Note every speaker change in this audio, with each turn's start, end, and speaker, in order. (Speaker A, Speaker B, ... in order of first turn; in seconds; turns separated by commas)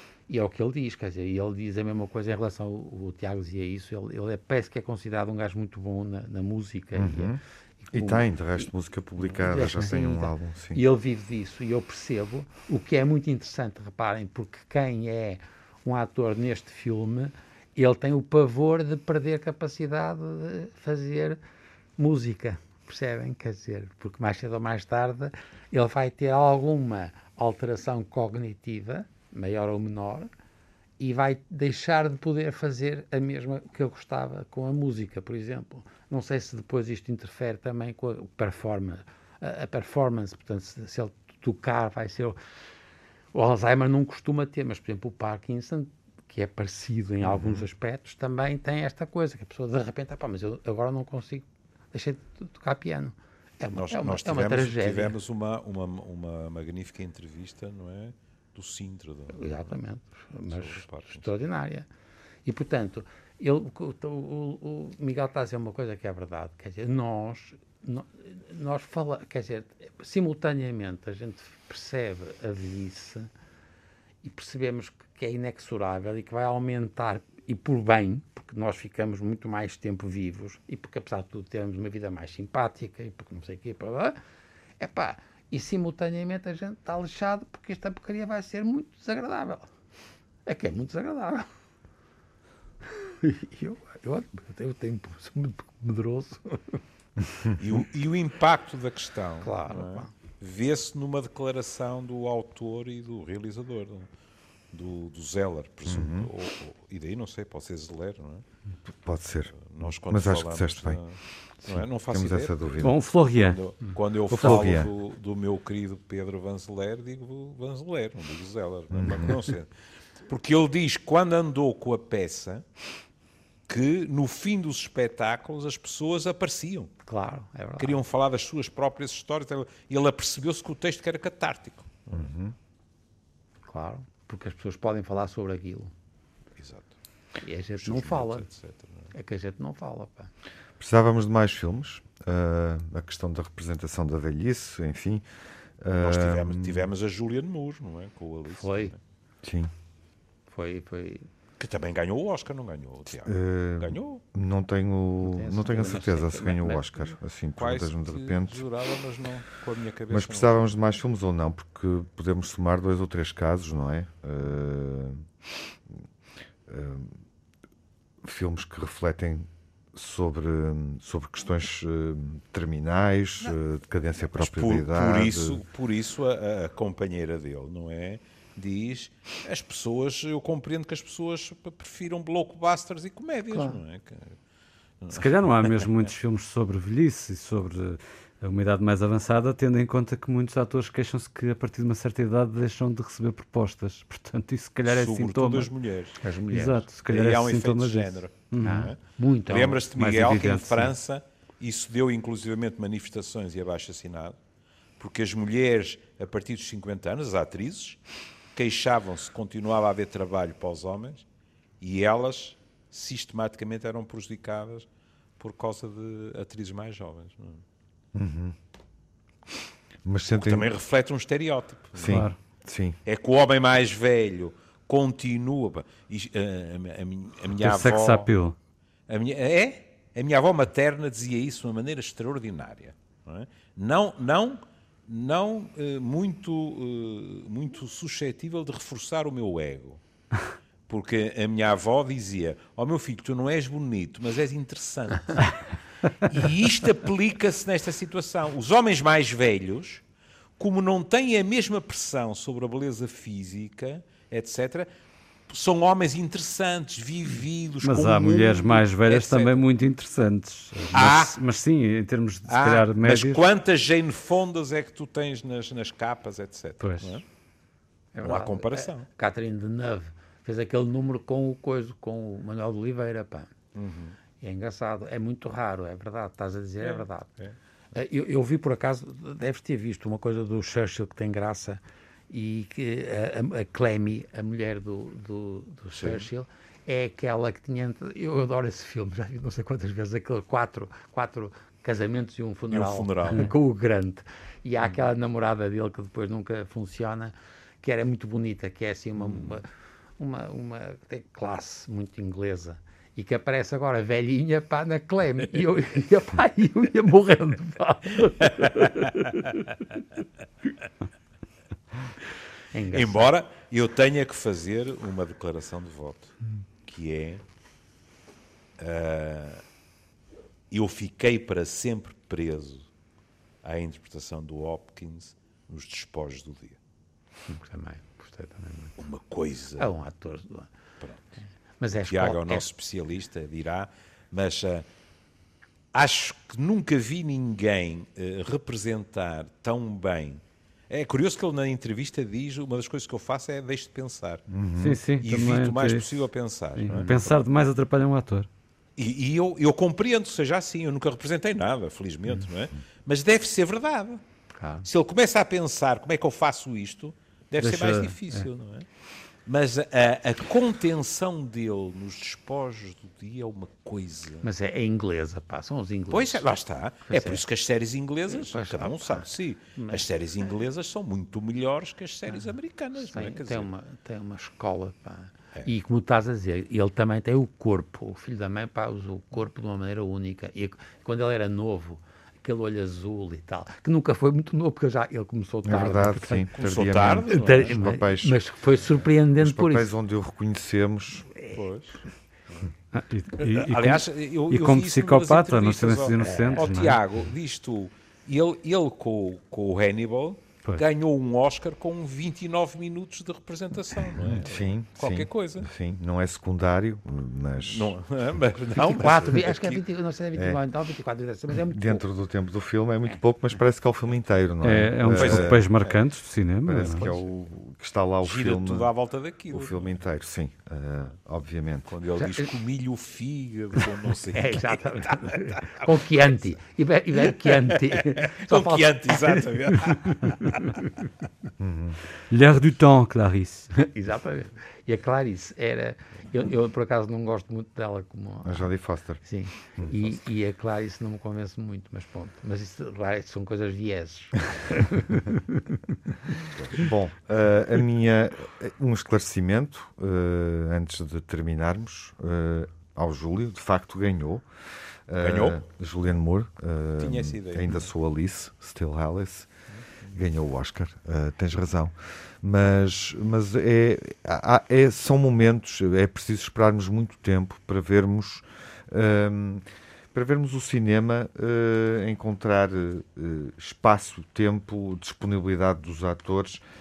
Speaker A: 0.3-8.6, Speaker B: 7.0-7.4, Speaker B: 7.9-10.8, Speaker A: 9.3-21.4, Speaker A: 22.0-30.3, Speaker A: 31.0-42.4, Speaker A: 43.3-55.2, Speaker C: 53.7-59.7, Speaker A: 59.3-61.9, Speaker C: 60.5-61.2, Speaker A: 62.5-73.3, Speaker A: 74.2-84.2, Speaker A: 84.8-89.7, Speaker A: 90.5-91.5, Speaker A: 92.9-96.8, Speaker C: 97.6-104.1, Speaker A: 99.4-100.1, Speaker C: 104.7-108.4, Speaker B: 105.9-106.3, Speaker B: 109.0-111.0, Speaker C: 109.5-119.7, Speaker B: 111.7-113.0, Speaker D: 112.8-113.6, Speaker B: 114.3-114.9, Speaker D: 114.4-114.7, Speaker B: 118.9-119.4, Speaker C: 120.3-122.6, Speaker C: 123.7-126.9, Speaker A: 127.1-128.0, Speaker C: 127.8-132.3, Speaker B: 132.1-132.6, Speaker A: 133.7-135.9, Speaker C: 136.6-136.9, Speaker A: 137.4-138.5, Speaker C: 137.8-139.1, Speaker A: 139.1-140.3, Speaker B: 140.8-145.2, Speaker B: 145.8-146.9, Speaker C: 146.0-149.0, Speaker A: 148.6-148.9, Speaker B: 149.4-149.7, Speaker A: 150.5-151.3, Speaker C: 151.6-154.2, Speaker B: 153.2-158.7, Speaker A: 155.2-157.1, Speaker C: 157.6-160.6, Speaker B: 160.1-165.2, Speaker B: 166.7-167.2, Speaker B: 168.2-175.6, Speaker C: 174.3-184.4, Speaker A: 183.5-183.8, Speaker C: 185.0-185.9, Speaker D: 185.1-195.7, Speaker C: 194.8-196.2, Speaker A: 196.2-196.8, Speaker D: 196.5-198.9, Speaker C: 197.1-199.0, Speaker A: 198.6-199.8, Speaker C: 199.5-204.4, Speaker D: 199.9-200.9, Speaker C: 205.0-208.0, Speaker C: 208.5-211.2, Speaker C: 211.8-214.9, Speaker C: 215.4-217.6, Speaker B: 218.2-218.6, Speaker B: 220.1-220.7, Speaker C: 220.3-222.3, Speaker B: 221.9-223.0, Speaker D: 222.1-222.3, Speaker C: 223.1-228.3, Speaker D: 227.6-228.6, Speaker C: 229.1-240.0, Speaker C: 240.9-245.6, Speaker C: 246.3-250.0, Speaker C: 250.6-254.9, Speaker C: 255.5-259.6, Speaker D: 257.8-263.4, Speaker C: 260.9-261.4, Speaker C: 262.5-267.2, Speaker D: 266.8-267.2, Speaker A: 268.1-273.5, Speaker C: 268.2-269.1, Speaker C: 273.7-274.2, Speaker A: 274.4-277.3, Speaker C: 276.8-277.6, Speaker A: 277.9-299.6, Speaker C: 285.9-286.3, Speaker C: 292.7-293.5, Speaker A: 300.2-309.6, Speaker C: 308.4-309.1, Speaker A: 312.7-313.3, Speaker C: 312.9-317.4, Speaker C: 318.8-319.6, Speaker C: 320.7-322.9, Speaker C: 323.6-326.8, Speaker A: 327.5-329.0, Speaker C: 329.0-329.9, Speaker A: 329.8-330.7, Speaker C: 331.0-331.3, Speaker A: 331.8-332.7, Speaker C: 332.0-334.9, Speaker C: 335.9-344.5, Speaker B: 344.5-345.0, Speaker D: 344.8-346.1, Speaker C: 345.2-347.4, Speaker D: 346.8-348.5, Speaker A: 346.9-347.3, Speaker C: 349.0-354.2, Speaker A: 354.6-354.9, Speaker C: 354.9-358.9, Speaker D: 357.6-358.2, Speaker C: 359.5-364.5, Speaker A: 364.4-366.5, Speaker C: 366.1-373.7, Speaker A: 367.1-367.4, Speaker A: 368.3-370.1, Speaker A: 372.3-386.5, Speaker B: 385.6-388.4, Speaker C: 386.6-387.8, Speaker A: 387.3-389.9, Speaker B: 389.4-391.3, Speaker C: 391.5-392.6, Speaker D: 392.9-397.0, Speaker C: 393.4-405.7, Speaker A: 396.2-396.6, Speaker B: 404.2-408.0, Speaker C: 407.6-409.8, Speaker A: 408.8-412.0, Speaker B: 411.7-415.6, Speaker D: 414.6-417.1, Speaker C: 415.1-416.0, Speaker B: 416.6-418.9, Speaker C: 418.2-419.9, Speaker B: 419.5-421.9, Speaker C: 421.9-425.9, Speaker A: 424.3-429.4, Speaker C: 427.3-430.8, Speaker B: 431.6-432.0, Speaker D: 432.3-433.7, Speaker A: 433.7-438.7, Speaker B: 438.4-439.2, Speaker A: 439.2-445.4, Speaker C: 446.6-446.9, Speaker B: 446.7-454.4, Speaker B: 455.1-459.5, Speaker C: 455.2-455.6, Speaker C: 457.0-457.8, Speaker B: 460.1-476.6